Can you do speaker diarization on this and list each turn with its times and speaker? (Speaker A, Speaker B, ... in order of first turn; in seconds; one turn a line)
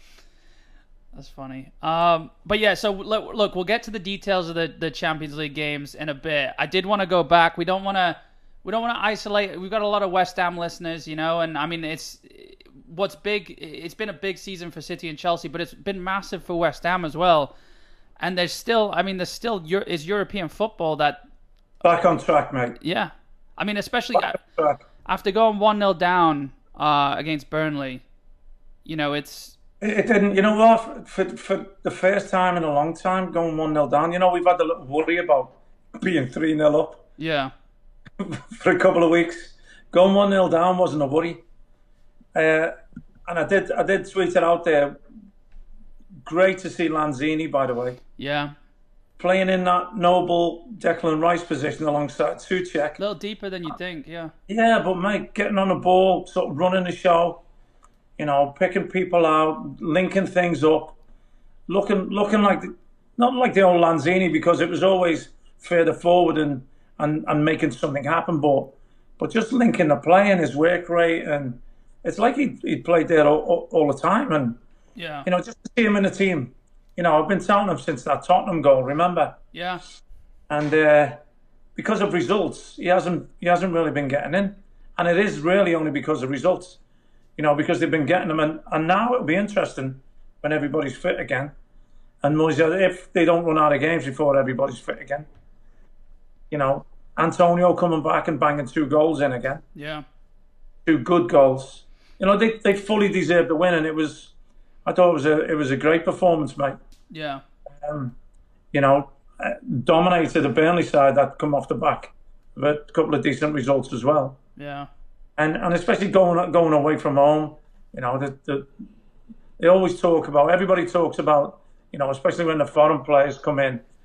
Speaker A: 1.1-17.5
Speaker A: 18.2-21.2
Speaker B: 21.8-22.8
Speaker A: 22.8-24.4
Speaker B: 24.1-24.8
Speaker A: 25.0-28.0
Speaker A: 28.8-29.6
Speaker B: 29.8-37.0
Speaker A: 37.2-37.5
Speaker B: 38.2-41.4
Speaker B: 42.3-42.7
Speaker B: 43.2-45.0
Speaker B: 46.2-48.0
Speaker A: 48.2-48.5
Speaker B: 49.2-53.0
Speaker A: 53.0-54.3
Speaker B: 54.5-57.4
Speaker B: 58.2-61.0
Speaker B: 61.7-74.6
Speaker A: 75.0-75.3
Speaker B: 75.2-79.4
Speaker A: 79.5-79.8
Speaker B: 80.5-81.2
Speaker B: 81.8-86.8
Speaker B: 87.4-91.5
Speaker B: 92.2-95.3
Speaker B: 96.5-99.6
Speaker A: 99.7-100.0
Speaker B: 100.8-104.3
Speaker B: 104.8-106.8
Speaker A: 107.1-107.4
Speaker B: 107.8-108.2
Speaker B: 108.7-114.4
Speaker A: 114.6-114.9
Speaker B: 115.4-118.7
Speaker B: 119.6-123.8